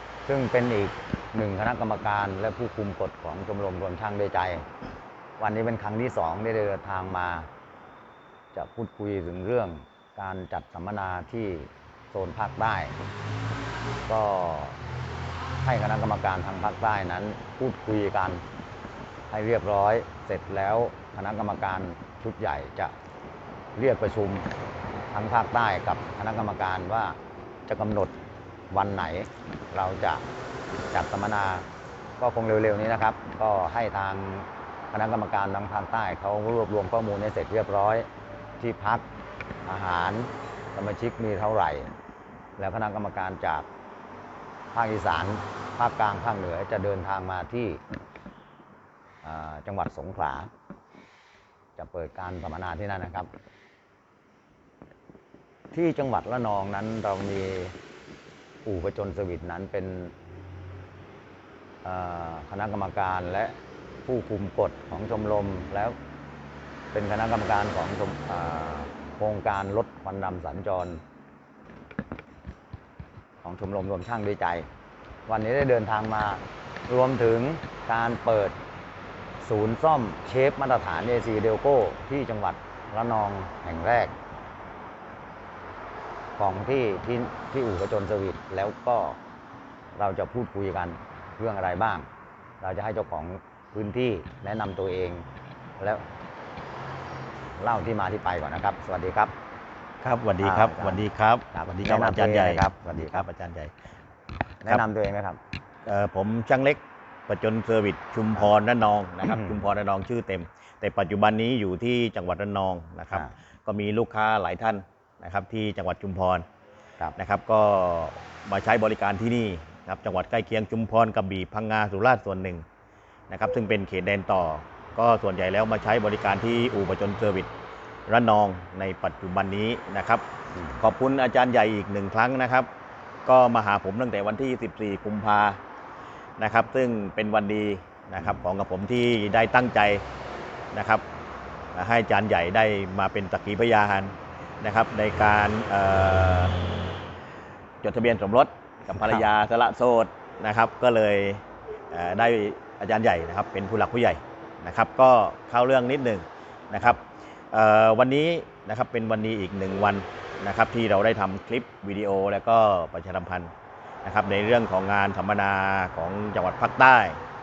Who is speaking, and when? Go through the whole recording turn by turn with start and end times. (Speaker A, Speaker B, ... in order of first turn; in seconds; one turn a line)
Speaker A: 0.2-4.7
Speaker A: 5.4-7.5
Speaker A: 8.5-12.9
Speaker A: 14.1-14.8
Speaker A: 15.6-18.4
Speaker A: 19.3-22.9
Speaker A: 23.8-24.5
Speaker A: 25.1-28.1
Speaker A: 28.7-30.2
Speaker A: 30.9-31.7
Speaker A: 32.2-38.1
Speaker A: 38.6-39.0
Speaker A: 39.6-41.9
Speaker A: 42.6-43.7
Speaker A: 44.7-47.8
Speaker A: 49.2-50.5
Speaker A: 51.8-53.3
Speaker A: 55.7-57.7
Speaker A: 58.6-60.1
Speaker A: 61.8-65.9
Speaker A: 66.9-71.0
Speaker A: 73.4-74.7
Speaker A: 75.3-78.5
Speaker A: 79.4-84.1
Speaker A: 86.4-89.2
Speaker A: 90.0-92.0
Speaker A: 92.6-95.2
Speaker A: 95.8-96.0
Speaker A: 97.6-99.3
Speaker B: 100.0-103.7
Speaker A: 100.4-103.2
Speaker A: 104.6-105.4
Speaker B: 105.8-116.4
Speaker A: 109.2-109.5
Speaker B: 117.2-122.6
Speaker B: 123.3-127.5
Speaker B: 128.1-130.2
Speaker A: 130.5-130.8
Speaker B: 130.8-132.7
Speaker B: 133.2-135.6
Speaker B: 136.4-140.0
Speaker B: 140.7-141.0
Speaker B: 141.7-146.6
Speaker B: 147.8-163.5
Speaker A: 149.0-149.2
Speaker B: 164.0-167.2